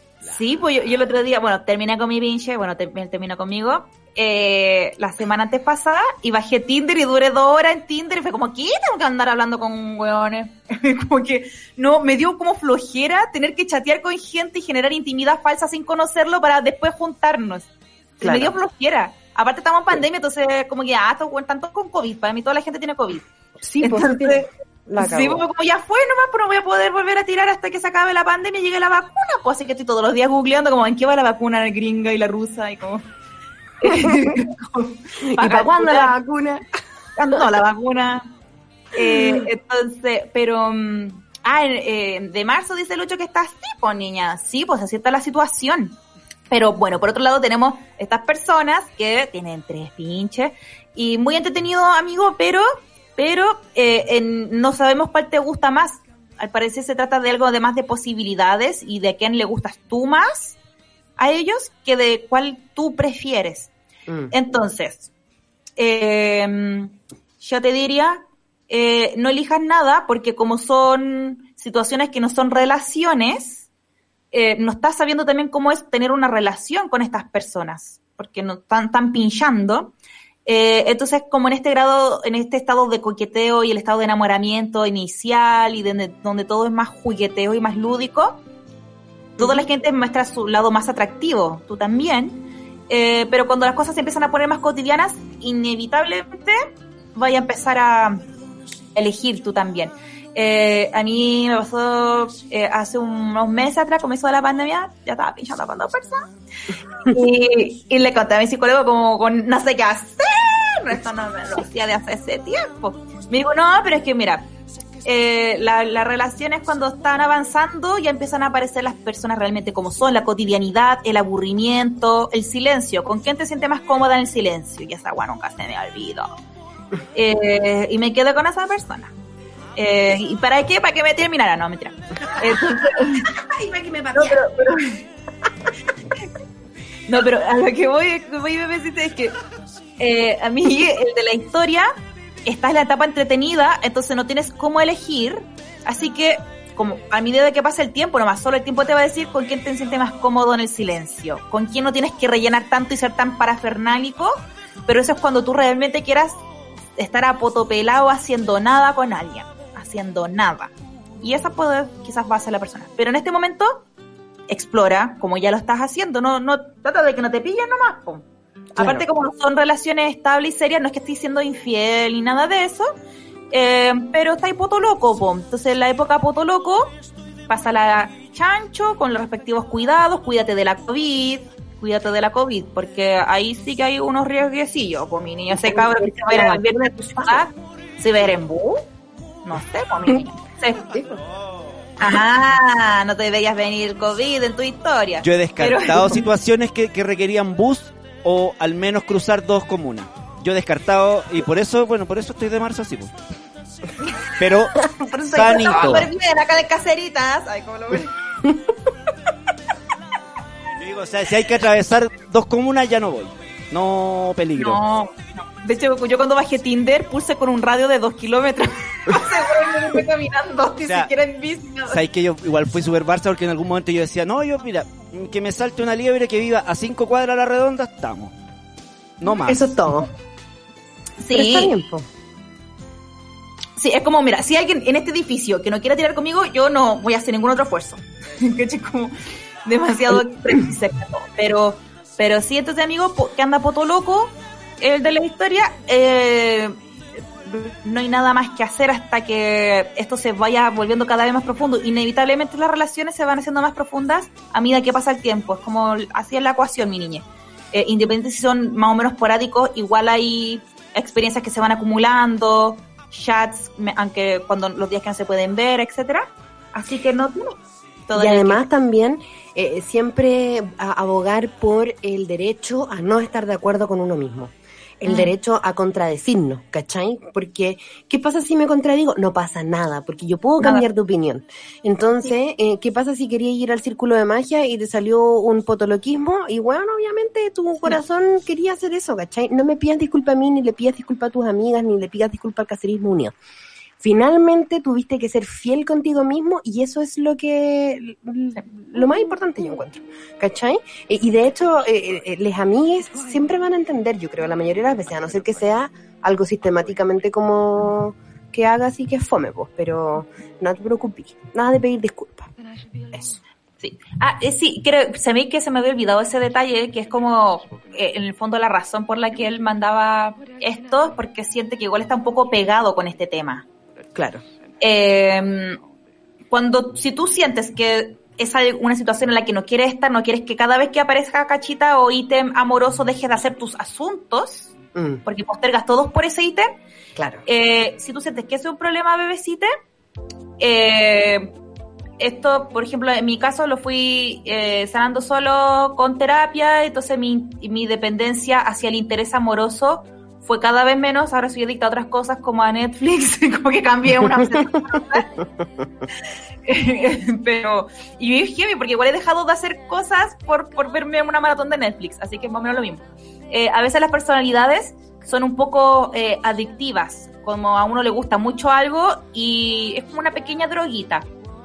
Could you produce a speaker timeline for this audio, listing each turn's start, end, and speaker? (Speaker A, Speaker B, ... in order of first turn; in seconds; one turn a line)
Speaker A: 0.2-17.7
Speaker A: 18.2-23.2
Speaker B: 18.2-18.5
Speaker B: 23.6-25.4
Speaker A: 23.8-33.0
Speaker A: 33.8-36.1
Speaker B: 33.8-34.5
Speaker B: 35.2-36.6
Speaker A: 37.2-38.3
Speaker B: 38.9-39.5
Speaker A: 38.9-46.0
Speaker A: 46.5-52.6
Speaker A: 53.2-60.6
Speaker A: 61.2-63.7
Speaker B: 64.1-64.3
Speaker A: 64.3-65.1
Speaker A: 65.8-73.7
Speaker A: 74.3-79.9
Speaker A: 80.5-88.4
Speaker A: 89.4-98.2
Speaker B: 89.4-89.6
Speaker A: 98.9-106.3
Speaker A: 107.1-114.5
Speaker A: 115.0-126.4
Speaker A: 127.1-129.1
Speaker A: 129.8-133.3
Speaker B: 132.4-134.5
Speaker A: 134.2-135.0
Speaker A: 137.1-139.4
Speaker A: 140.0-141.9
Speaker A: 142.4-156.4
Speaker A: 157.0-163.8
Speaker A: 164.5-172.9
Speaker B: 168.8-169.1
Speaker A: 173.5-176.9
Speaker A: 177.5-188.8
Speaker B: 185.5-187.5
Speaker A: 189.4-191.0
Speaker C: 191.2-191.7
Speaker A: 192.0-196.2
Speaker C: 195.2-203.1
Speaker C: 204.4-206.1
Speaker A: 205.0-208.1
Speaker C: 210.8-214.8
Speaker A: 214.6-222.0
Speaker C: 220.8-221.1
Speaker C: 221.9-228.3
Speaker C: 229.2-229.8
Speaker B: 229.4-230.1
Speaker A: 231.2-231.8
Speaker B: 231.3-232.1
Speaker A: 233.8-246.8
Speaker A: 247.4-268.6
Speaker B: 268.1-293.3
Speaker A: 275.1-275.3
Speaker A: 280.6-280.9
Speaker B: 294.0-312.5
Speaker B: 313.1-313.4
Speaker A: 313.8-323.6
Speaker B: 324.1-324.4
Speaker A: 324.8-325.8
Speaker A: 326.5-334.7
Speaker B: 334.9-335.2
Speaker A: 335.2-336.8
Speaker B: 337.1-337.4
Speaker A: 337.5-339.7
Speaker A: 340.6-341.5
Speaker A: 342.2-355.4
Speaker A: 356.6-371.3